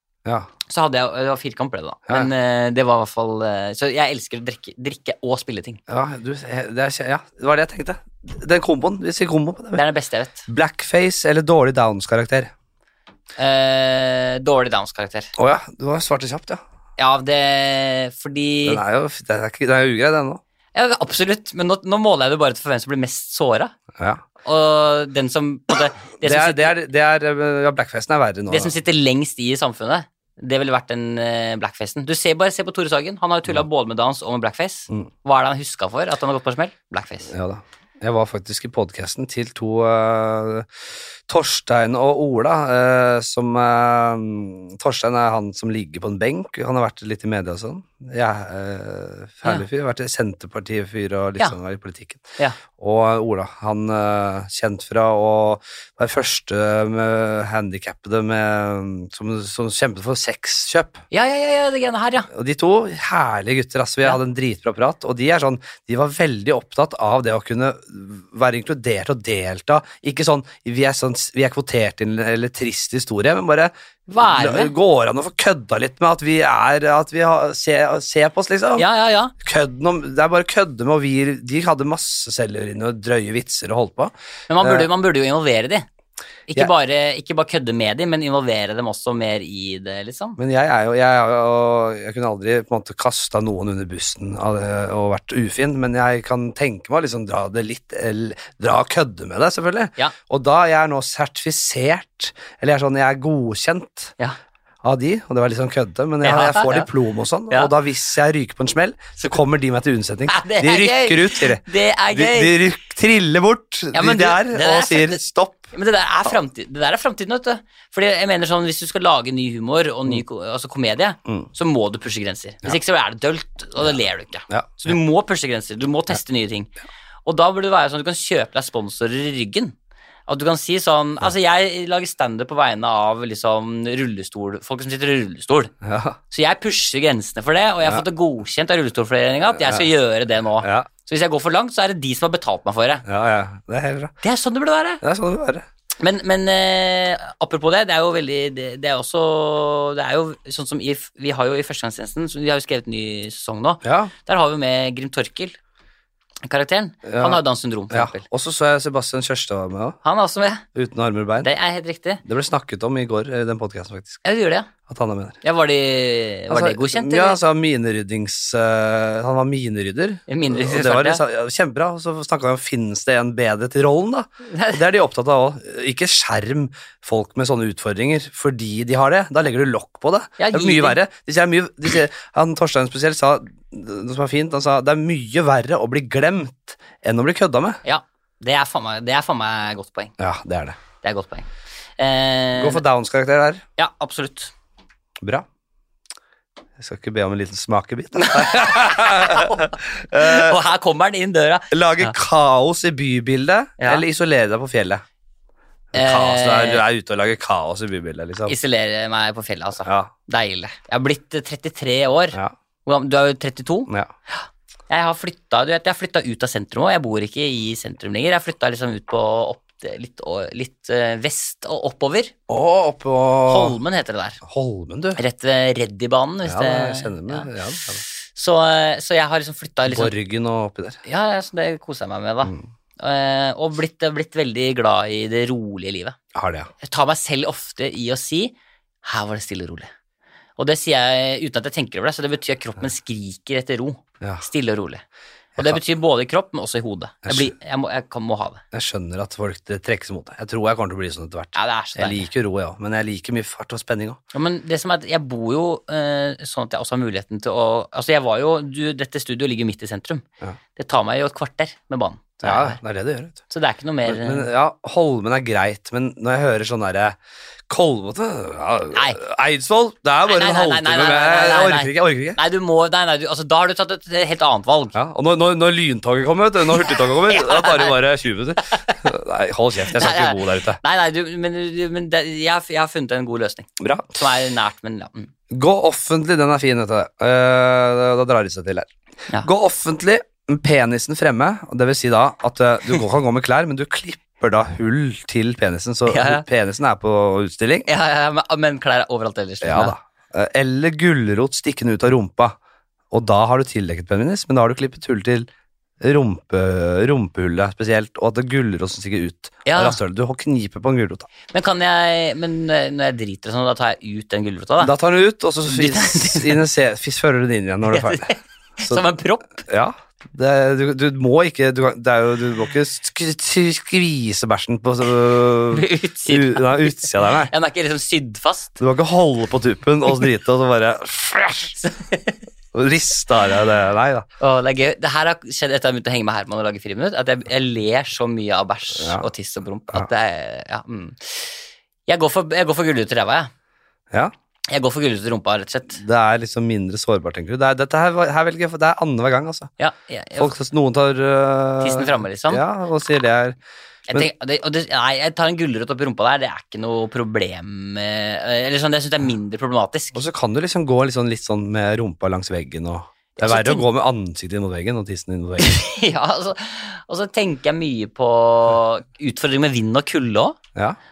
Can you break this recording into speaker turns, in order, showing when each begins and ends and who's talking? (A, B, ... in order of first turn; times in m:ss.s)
0:00.7-0:05.8 A
0:05.9-0:09.8 B
0:09.7-0:10.4 A
0:10.5-0:12.5 B
0:13.4-0:15.3 A
0:15.4-0:16.6 B
0:17.0-0:18.8 A
0:18.6-0:20.4 B
0:20.7-0:23.7 A
0:24.0-0:24.2 B
0:24.4-0:26.7 A
0:26.2-0:28.7 B
0:28.5-0:37.3 A
0:37.3-0:40.7 B
0:41.3-0:52.2 B
0:52.8-1:01.0 B
1:01.1-1:02.3 A
1:02.3-1:18.8 B
1:14.1-1:14.7 A
1:18.8-1:19.3 A
1:19.4-1:24.9 B
1:24.5-1:25.8 A
1:26.5-1:30.4 A
1:30.4-1:44.1 B
1:44.8-1:55.7 B
1:46.2-1:46.9 A
1:50.3-1:52.6 A
1:53.9-2:06.7 A
2:04.5-2:05.0 B
2:07.2-2:09.7 A
2:10.3-2:15.7 A
2:15.8-2:16.2 B
2:16.3-2:23.0 A
2:19.5-2:19.9 B
2:20.6-2:20.9 B
2:23.0-2:24.1 B
2:24.2-2:25.0 A
2:25.0-2:25.6 B
2:26.0-2:35.6 A
2:33.8-2:34.1 B
2:36.4-2:38.2 A
2:37.0-2:37.4 B
2:37.9-2:40.0 B
2:40.0-2:40.6 A
2:40.7-2:41.5 B
2:41.4-2:42.2 A
2:42.2-2:44.2 B
2:44.2-2:44.7 A
2:44.8-2:45.4 B
2:45.4-2:47.4 A
2:46.5-3:07.8 B
2:50.3-2:51.2 A
2:54.5-2:54.8 A
3:00.4-3:01.0 A
3:07.8-3:10.1 A
3:10.2-3:10.8 B
3:11.0-3:12.8 A
3:12.6-3:13.6 B
3:13.8-3:14.5 A
3:15.2-3:15.4 B
3:16.8-3:20.6 B
3:18.2-3:22.1 A
3:21.7-3:25.0 B
3:23.8-3:24.0 A
3:25.9-3:28.5 B
3:25.9-3:26.8 A
3:28.4-3:42.3 A
3:29.8-3:30.1 B
3:42.5-3:43.8 B
3:43.4-3:44.4 A
3:44.4-3:45.2 B
3:45.2-3:47.5 A
3:46.4-3:48.0 B
3:48.2-3:50.1 A
3:49.9-3:51.0 B
3:51.0-3:56.2 A
3:56.3-3:56.7 B
3:56.8-3:58.5 A
3:59.0-3:59.9 A
4:00.6-4:05.0 A
4:05.6-4:08.6 A
4:07.2-4:07.5 B
4:08.7-4:14.2 B
4:11.5-4:12.3 A
4:14.3-4:20.2 A
4:20.8-4:22.8 A
4:22.4-4:23.4 B
4:23.5-4:24.5 A
4:24.0-4:27.2 B
4:27.7-4:32.4 B
4:28.9-4:29.2 A
4:30.2-4:34.9 A
4:34.9-4:40.8 B
4:36.8-4:38.0 A
4:38.6-4:39.0 A
4:39.9-4:45.3 A
4:43.8-4:44.2 B
4:45.5-4:48.9 B
4:49.4-4:57.9 B
4:56.1-4:56.4 A
4:57.8-4:59.9 A
4:59.6-5:02.6 B
5:03.1-5:05.5 B
5:06.0-5:11.3 B
5:09.6-5:10.0 A
5:11.5-5:14.9 A
5:14.8-5:18.3 B
5:15.7-5:16.6 A
5:17.9-5:19.6 A
5:19.6-5:27.5 B
5:25.7-5:28.8 A
5:28.8-5:31.7 B
5:31.8-5:32.4 A
5:32.7-5:34.2 B
5:34.4-5:43.5 A
5:39.0-5:39.2 B
5:44.7-5:46.0 A
5:46.0-5:49.7 B
5:49.8-5:50.5 A
5:50.4-5:53.6 B
5:51.8-5:52.6 A
5:54.1-6:00.2 A
6:00.1-6:05.8 B
6:03.4-6:03.8 A
6:05.6-6:10.6 A